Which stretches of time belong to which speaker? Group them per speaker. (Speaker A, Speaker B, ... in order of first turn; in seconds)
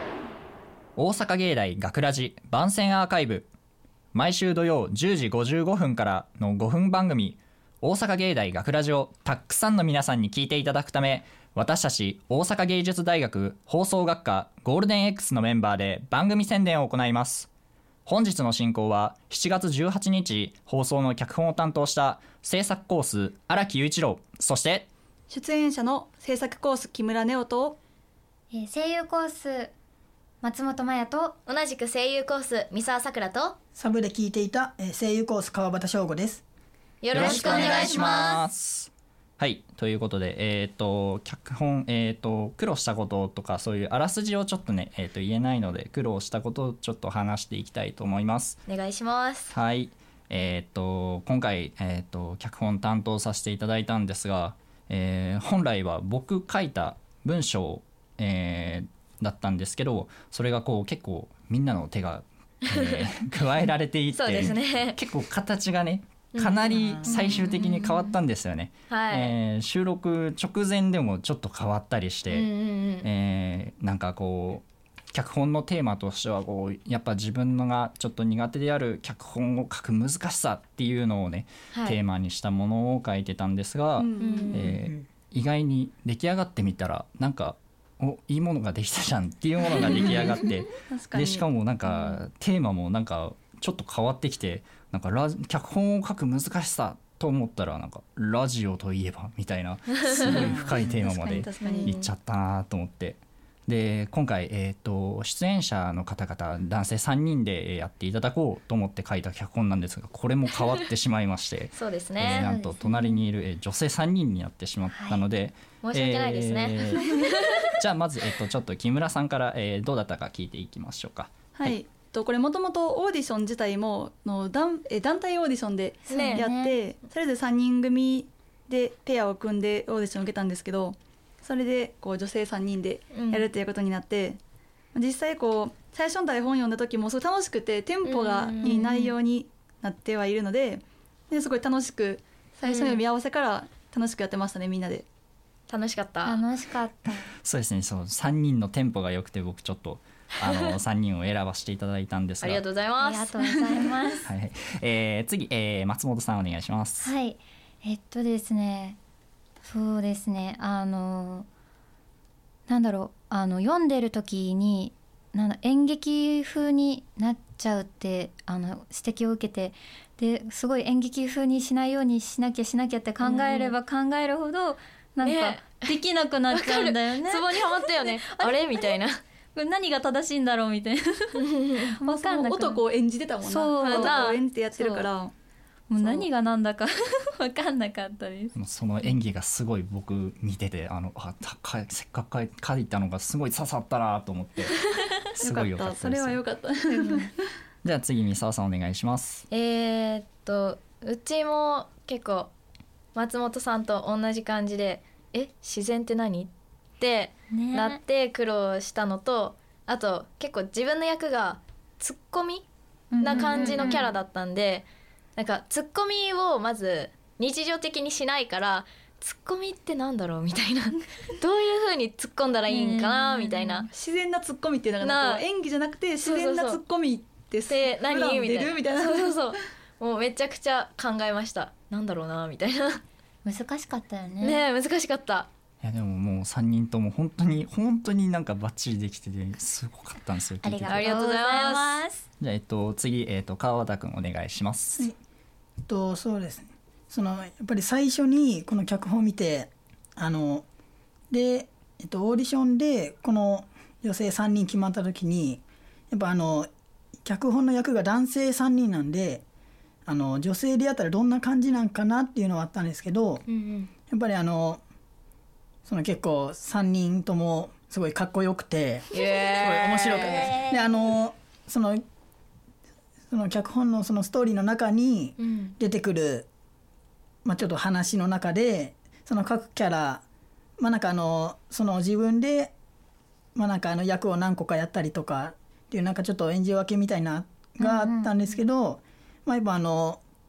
Speaker A: 0.9-3.5, 4.1-17.5, 18.1-24.9, 37.1-48.6, 49.5-117.2, 117.7-121.8, 147.4-152.6, 154.3-157.1, 188.5-194.8, 195.3-196.4, 197.8-199.4, 235.8-241.0, 242.4-245.1
Speaker B: 25.3-27.8, 84.0-84.7, 90.9-91.5, 100.2-102.0, 121.5-134.4, 134.9-145.1, 182.0-185.3, 186.0-186.3, 195.4-197.3, 223.9-229.6
Speaker C: 28.5-29.7, 30.4-31.4, 67.0-68.1, 112.2-113.2, 114.9-115.2, 126.1-126.8, 146.2-147.3, 153.0-154.3, 157.0-159.0, 159.6-161.5, 162.7-178.8, 179.5-182.8, 183.4-185.1, 185.9-188.5, 207.5-208.0, 213.1-214.1, 222.7-223.8, 233.4-234.6, 240.6-242.2, 270.3-270.7, 287.8-288.3
Speaker D: 31.5-33.5, 37.0-38.4, 48.7-49.5, 64.1-65.0, 66.3-66.8, 68.9-69.3, 72.3-73.1, 81.7-82.0, 84.2-84.8, 91.9-92.2, 101.7-102.1, 111.8-112.5, 115.8-117.6, 126.1-126.4, 133.1-133.5, 138.0-139.1, 142.6-143.0, 145.7-146.4, 150.4-150.7, 152.4-153.6, 173.2-173.7, 175.2-175.9, 176.5-179.2, 181.4-182.0, 183.8-184.4, 199.5-202.5, 203.1-212.7, 213.2-223.9, 225.0-225.4, 226.2-226.8, 227.7-233.0, 234.4-235.5, 240.9-242.0, 263.5-263.9, 269.1-270.5, 275.4-275.7
Speaker E: 33.8-36.4, 37.2-37.8, 245.8-250.6, 251.3-256.7, 257.2-259.4, 260.1-263.4, 264.1-264.8, 265.9-272.0, 273.3-276.5, 277.4-280.2, 280.8-282.7, 283.5-290.2